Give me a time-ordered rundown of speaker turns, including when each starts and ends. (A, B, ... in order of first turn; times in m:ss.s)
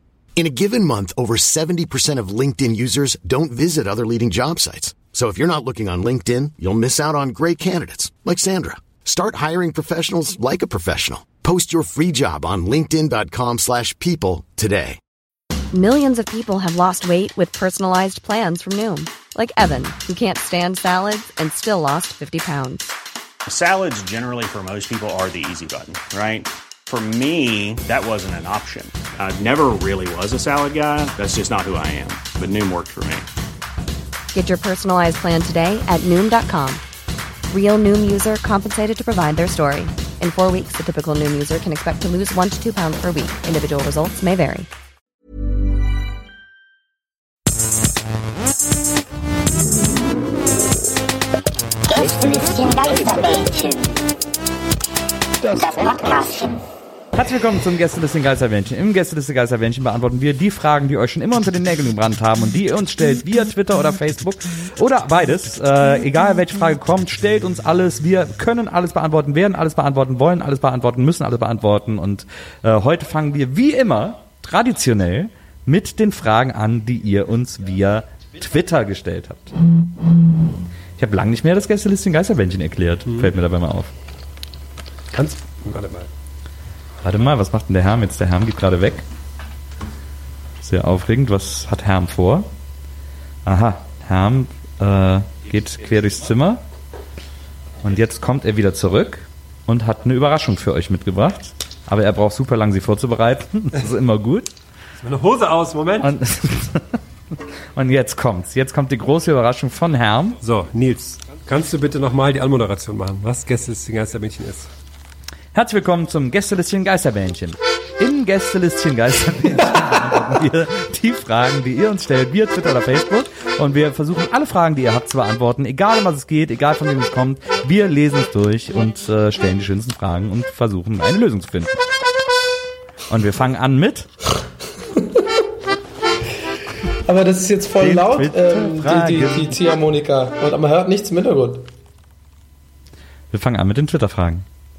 0:00.4-0:15.0 A
0:15.7-0:22.9 B
0:23.4-0:33.2 C
0:34.3-0:36.8 B
0:37.5-0:44.7 B
0:51.9-0:54.0 D
0:55.4-0:56.6 D
0:57.1-1:19.5 E
1:21.0-1:23.9 E
1:23.0-1:23.3 F
1:25.1-1:26.1 F
1:27.0-1:29.0 E
1:30.6-1:32.5 E
1:33.4-1:36.6 E
1:37.8-1:44.5 E
1:45.0-1:46.1 F
1:46.0-1:47.0 E
1:47.7-1:50.4 E
1:50.4-1:54.7 F
1:55.5-2:11.8 E
2:13.1-2:14.1 E
2:17.0-2:21.7 G
2:17.8-2:19.6 E
2:23.3-2:24.4 E